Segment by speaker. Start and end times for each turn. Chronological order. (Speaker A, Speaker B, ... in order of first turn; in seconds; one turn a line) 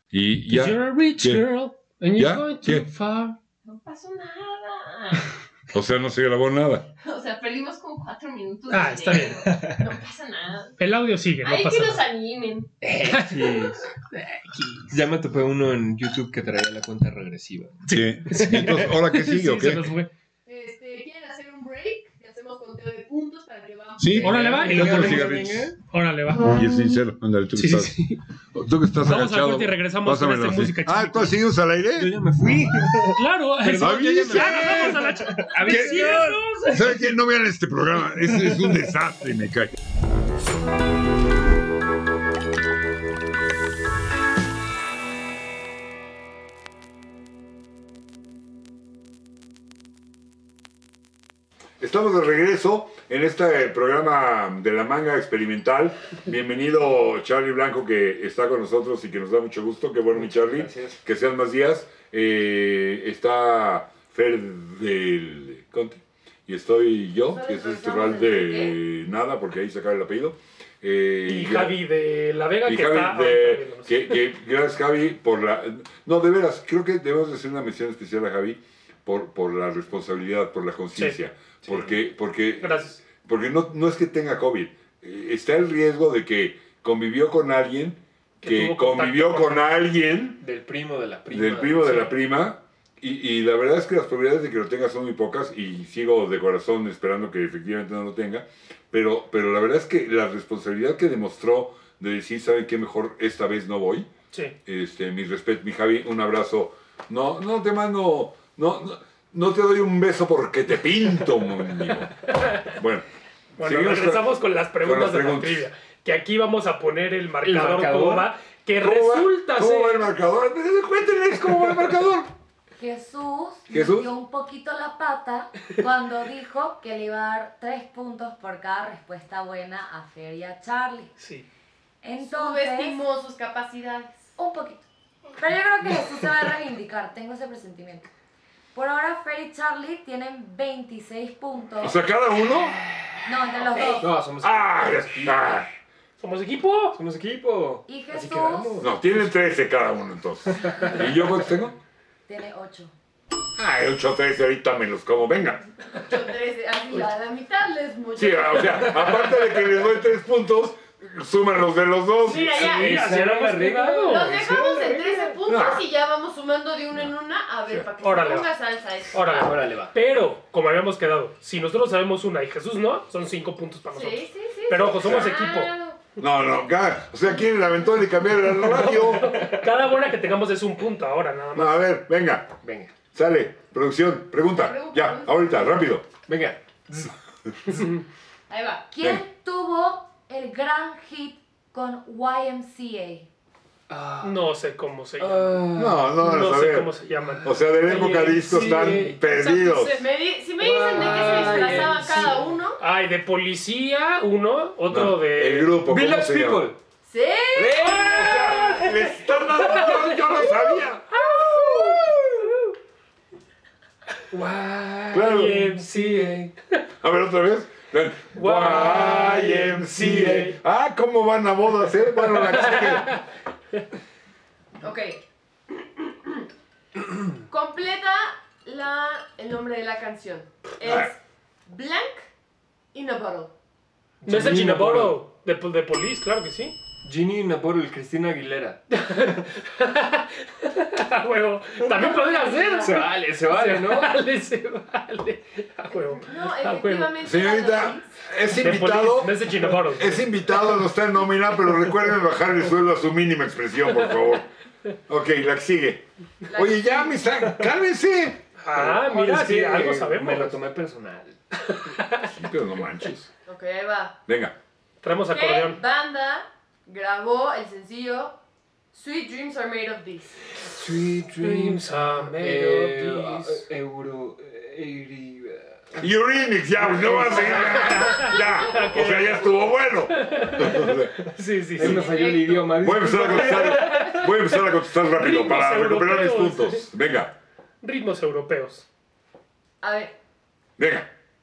Speaker A: 0.1-1.4
Speaker B: 0.5-3.4
Speaker A: 2.2-2.9
Speaker C: 3.6-5.3
Speaker A: 5.7-6.9
Speaker C: 7.0-10.8
Speaker B: 8.7-9.4
Speaker D: 9.4-9.9
Speaker B: 10.8-12.0
Speaker C: 11.4-12.7
Speaker D: 12.8-13.9
Speaker B: 13.1-14.9
Speaker D: 14.9-18.9
Speaker B: 17.9-20.1
Speaker A: 17.9-19.9
Speaker C: 20.5-24.6
Speaker A: 24.0-25.7
Speaker D: 24.2-25.8
Speaker B: 24.2-26.7
Speaker A: 26.5-28.0
Speaker B: 27.6-28.2
Speaker A: 28.6-32.1
Speaker B: 29.0-31.4
Speaker D: 32.0-37.0
Speaker B: 33.1-36.9
Speaker A: 33.8-35.1
Speaker A: 35.7-39.7
Speaker D: 38.3-38.6
Speaker A: 51.8-71.8
Speaker D: 60.1-61.0
Speaker C: 67.3-68.8
Speaker B: 71.3-74.2
Speaker A: 72.7-90.4
Speaker D: 81.7-81.9
Speaker B: 82.6-83.0
Speaker B: 88.4-89.6
Speaker D: 90.4-92.2
Speaker A: 91.3-104.1
Speaker A: 104.7-113.1
Speaker B: 112.3-112.7
Speaker B: 113.6-120.1
Speaker A: 113.6-114.3
Speaker A: 114.8-115.7
Speaker D: 117.4-118.3
Speaker A: 118.8-122.3
Speaker E: 122.8-131.1
Speaker A: 123.7-124.1
Speaker B: 131.2-131.5
Speaker E: 132.0-133.0
Speaker C: 132.2-134.3
Speaker E: 134.4-134.8
Speaker E: 135.4-138.1
Speaker E: 138.7-142.0
Speaker A: 141.8-142.8
Speaker E: 143.2-144.1
Speaker C: 143.8-144.0
Speaker D: 143.8-145.6
Speaker A: 144.4-145.7
Speaker B: 146.2-147.0
Speaker D: 146.9-149.2
Speaker E: 147.9-148.9
Speaker A: 148.8-151.8
Speaker D: 150.5-151.5
Speaker E: 152.3-152.9
Speaker A: 153.6-155.6
Speaker C: 156.0-159.3
Speaker A: 158.2-162.5
Speaker C: 162.2-163.0
Speaker B: 162.3-164.6
Speaker D: 162.5-165.4
Speaker C: 164.1-169.6
Speaker A: 165.5-165.9
Speaker B: 168.0-168.5
Speaker B: 169.1-175.7
Speaker D: 169.3-169.9
Speaker C: 173.9-176.0
Speaker A: 175.0-175.3
Speaker A: 176.2-179.5
Speaker D: 178.9-179.6
Speaker B: 178.9-181.8
Speaker A: 181.6-182.5
Speaker D: 182.6-182.9
Speaker A: 183.1-186.1
Speaker C: 184.5-185.9
Speaker D: 186.3-187.2
Speaker B: 187.7-188.0
Speaker C: 188.5-188.9
Speaker E: 188.9-193.3
Speaker D: 193.9-194.4
Speaker B: 194.2-200.1
Speaker D: 195.2-196.2
Speaker A: 195.8-196.9
Speaker D: 197.2-199.2
Speaker A: 197.4-200.1
Speaker C: 199.8-202.8
Speaker D: 200.6-202.6
Speaker B: 201.1-202.0
Speaker B: 202.8-205.8
Speaker A: 204.9-206.7
Speaker D: 205.8-206.8
Speaker C: 207.1-208.0
Speaker D: 207.6-209.0
Speaker A: 207.7-211.1
Speaker B: 207.8-212.1
Speaker D: 211.2-212.5
Speaker D: 214.3-216.4
Speaker A: 215.1-215.7
Speaker B: 215.2-216.8
Speaker A: 217.0-223.1
Speaker B: 218.3-220.6
Speaker D: 220.1-220.4
Speaker B: 222.5-223.2
Speaker C: 224.8-226.4
Speaker C: 227.5-232.3
Speaker A: 230.8-231.1
Speaker C: 232.9-233.5
Speaker D: 234.2-235.2
Speaker B: 234.3-236.8
Speaker D: 237.0-238.8
Speaker B: 238.9-247.2
Speaker D: 241.8-242.1
Speaker E: 242.0-242.8
Speaker D: 242.8-244.2
Speaker C: 245.9-248.1
Speaker A: 247.2-254.5
Speaker B: 248.5-250.3
Speaker A: 255.1-258.4
Speaker C: 256.5-257.2
Speaker B: 258.6-260.6
Speaker D: 258.7-262.0
Speaker B: 261.6-262.3
Speaker A: 262.2-263.3
Speaker C: 263.5-264.2
Speaker A: 264.3-264.6
Speaker B: 265.0-265.8
Speaker C: 265.3-268.4
Speaker C: 268.9-270.4
Speaker D: 270.6-276.1
Speaker B: 271.4-273.7
Speaker A: 276.0-281.1
Speaker D: 276.8-278.1
Speaker B: 277.1-282.1
Speaker D: 280.9-284.3
Speaker C: 281.8-282.8
Speaker A: 282.8-287.3
Speaker B: 283.3-286.9
Speaker B: 287.8-288.9
Speaker C: 289.8-290.1
Speaker A: 290.8-291.1